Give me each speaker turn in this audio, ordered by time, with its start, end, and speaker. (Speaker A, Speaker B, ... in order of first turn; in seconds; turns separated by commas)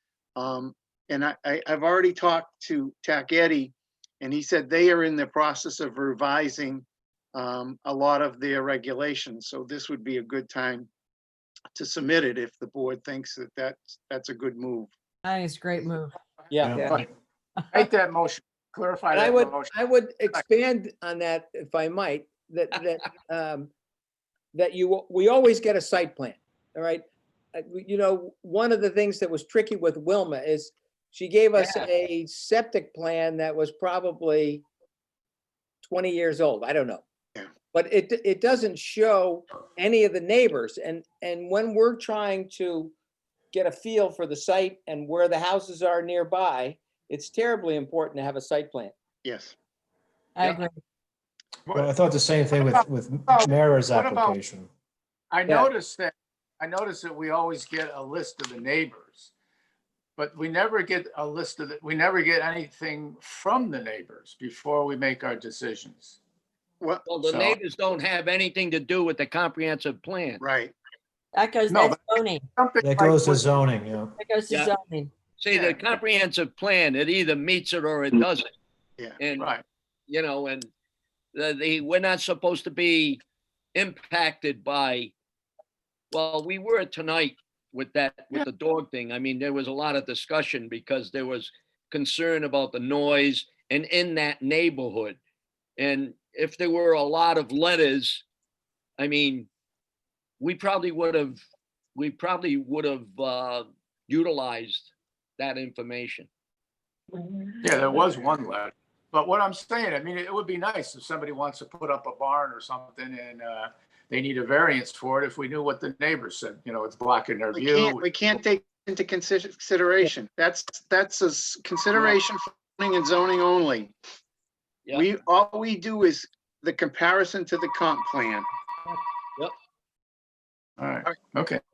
Speaker A: 0.4-10.9, Speaker A: 11.8-14.9, Speaker B: 15.2-16.2, Speaker C: 16.5-17.0, Speaker D: 16.6-17.0, Speaker E: 17.7-19.7, Speaker C: 19.1-23.7, Speaker C: 24.5-34.6, Speaker C: 35.8-37.0, Speaker C: 37.7-42.9, Speaker C: 43.5-48.9, Speaker A: 49.2-49.5, Speaker B: 50.4-50.8, Speaker D: 51.7-54.7, Speaker E: 52.5-54.4, Speaker E: 55.3-59.3, Speaker E: 60.2-66.2, Speaker A: 66.8-67.6, Speaker F: 67.1-70.4, Speaker A: 70.4-70.7, Speaker B: 71.3-72.5, Speaker E: 71.7-73.4, Speaker D: 72.8-74.1, Speaker B: 74.2-75.1, Speaker F: 75.4-78.5, Speaker E: 75.5-75.8, Speaker F: 79.2-79.5, Speaker F: 80.1-80.7, Speaker F: 81.3-83.2, Speaker F: 83.8-85.1, Speaker F: 86.1-95.2, Speaker F: 95.8-98.2, Speaker F: 99.0-99.5, Speaker F: 100.4-101.4, Speaker F: 102.0-106.3, Speaker E: 107.6-118.0, Speaker A: 117.5-123.9, Speaker A: 124.9-128.5, Speaker E: 130.8-131.6